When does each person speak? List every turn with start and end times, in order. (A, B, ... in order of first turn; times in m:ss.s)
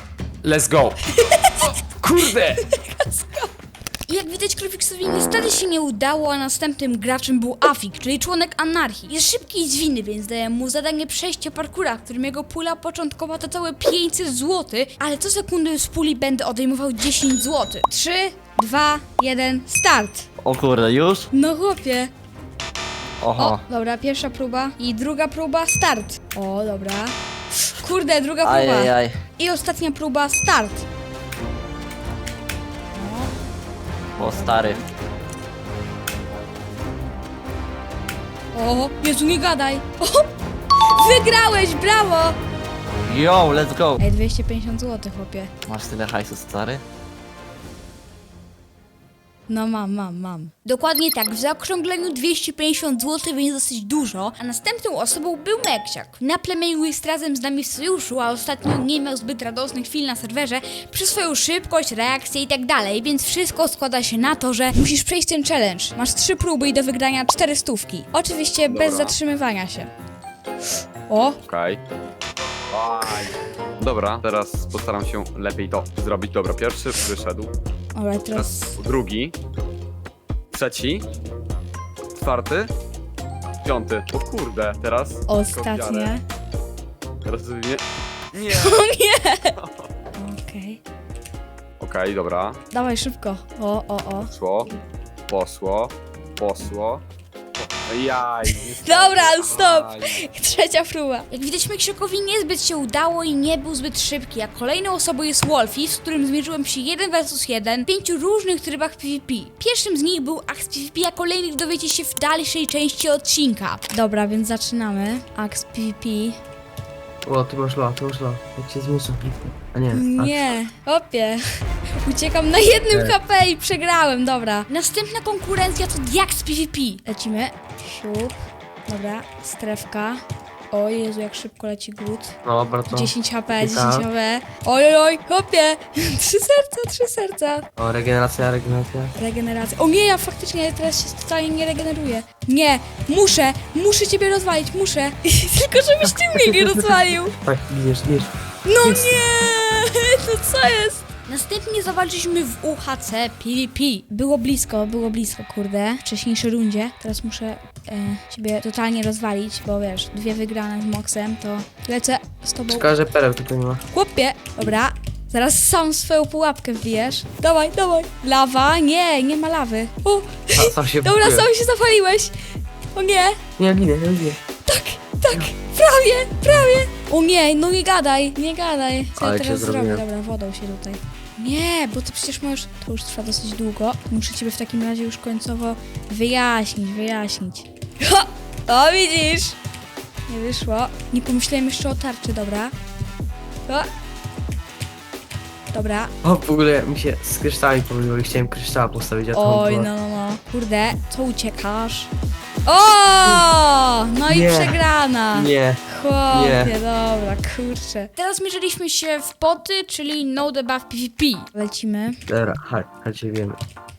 0:00.4-0:01.0 A
0:01.1-0:01.8 B
0:01.6-0:02.6 A
0:02.5-0:03.5 B
0:04.1-0:20.3 B
0:20.4-0:21.3 C
0:21.3-0:22.1 B
0:23.2-0:23.6 C
0:23.4-0:30.9 B
0:28.4-0:29.2 C
0:33.0-0:33.3 B
0:34.2-0:34.8 C
0:34.2-0:34.8 B
0:38.5-0:40.3 B
0:40.8-0:42.4 B
0:43.0-0:44.0 C
0:44.0-0:45.5 B
0:45.6-0:46.8 C
0:49.5-1:09.9 B
1:08.7-1:09.2 A
1:11.1-1:11.4 B
1:11.4-1:11.8 A
1:12.7-1:17.5 A
1:18.0-1:18.8 B
1:18.3-1:19.3 A
1:20.5-1:21.0 A
1:22.2-1:22.7 A
1:23.6-1:26.2 A
1:25.3-1:26.2 B
1:27.2-1:28.9 A
1:28.5-1:29.6 B
1:30.1-1:30.8 B
1:31.8-1:32.6 A
1:32.7-1:34.3 B
1:34.2-1:34.8 A
1:35.3-1:37.0 A
1:37.6-1:40.2 A
1:38.7-1:56.4 B
1:57.2-2:00.6 D
1:59.9-2:08.3 B
2:02.9-2:03.2 D
2:08.9-2:12.3 B
2:12.4-2:14.1 D
2:12.9-2:17.6 B
2:17.8-2:19.1 D
2:19.2-2:27.3 B
2:26.0-2:28.3 D
2:28.6-2:42.9 B
2:28.8-2:29.2 D
2:42.7-2:43.8 D
2:43.9-2:52.3 B
2:50.5-2:51.5 D
2:52.9-2:53.4 B
2:53.6-2:54.4 D
2:54.6-3:09.6 B
2:59.2-3:00.0 D
3:10.3-3:12.7 B
3:15.7-3:16.1 B
3:16.2-3:19.9 D
3:19.3-3:22.1 B
3:22.7-3:32.2 B
3:24.2-3:26.8 D
3:32.3-3:33.6 D